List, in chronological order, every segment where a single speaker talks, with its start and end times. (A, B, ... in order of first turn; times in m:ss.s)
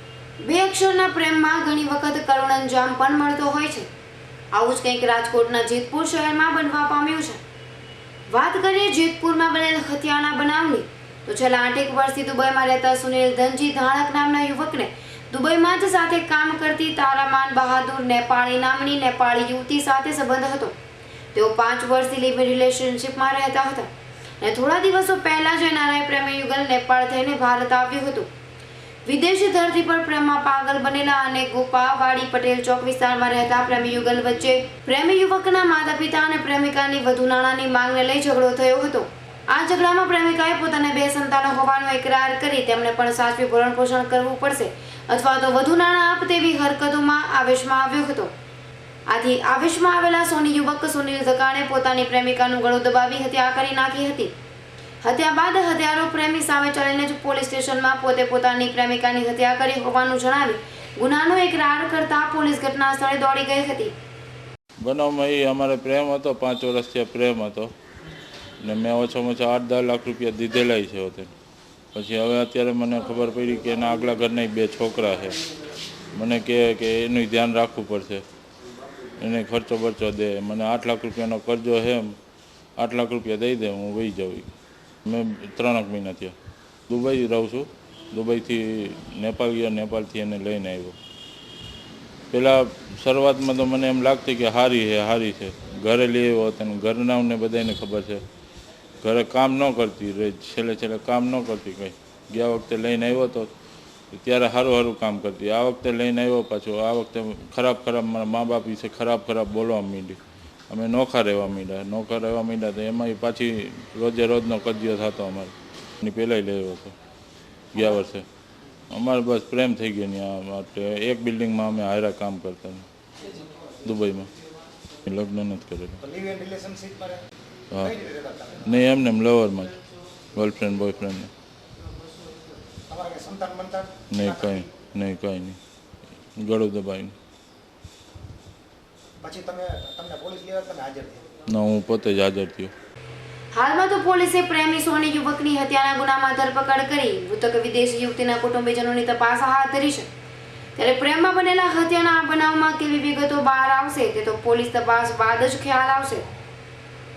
0:00.4-0:03.9 A
0:04.5-0:07.4 A
0:08.3-0:20.8 A
0:21.3-0:23.9 A
0:24.4-0:28.3 A
0:29.1-0:48.3 A
0:49.1-0:54.3 A
0:55.0-1:03.9 A
1:04.8-1:07.7 B
1:08.6-1:11.3 B
1:11.9-1:15.4 B
1:16.1-1:18.2 B
1:19.2-1:22.2 B
1:22.8-1:24.5 B
1:25.0-1:26.4 B
1:26.9-1:31.0 B
1:32.3-1:38.2 B
1:39.0-1:43.5 B
1:44.1-1:57.0 B
1:57.7-1:58.2 B
1:58.9-2:02.9 B
2:03.8-2:04.3 B
2:05.0-2:06.0 B
2:06.0-2:07.2 C
2:07.7-2:08.8 C
2:08.6-2:09.8 B
2:10.3-2:11.3 B
2:12.9-2:14.7 C
2:14.1-2:15.6 B
2:16.4-2:17.2 B
2:19.2-2:21.2 C
2:21.5-2:22.7 B
2:23.5-2:30.1 A
2:30.8-2:36.3 A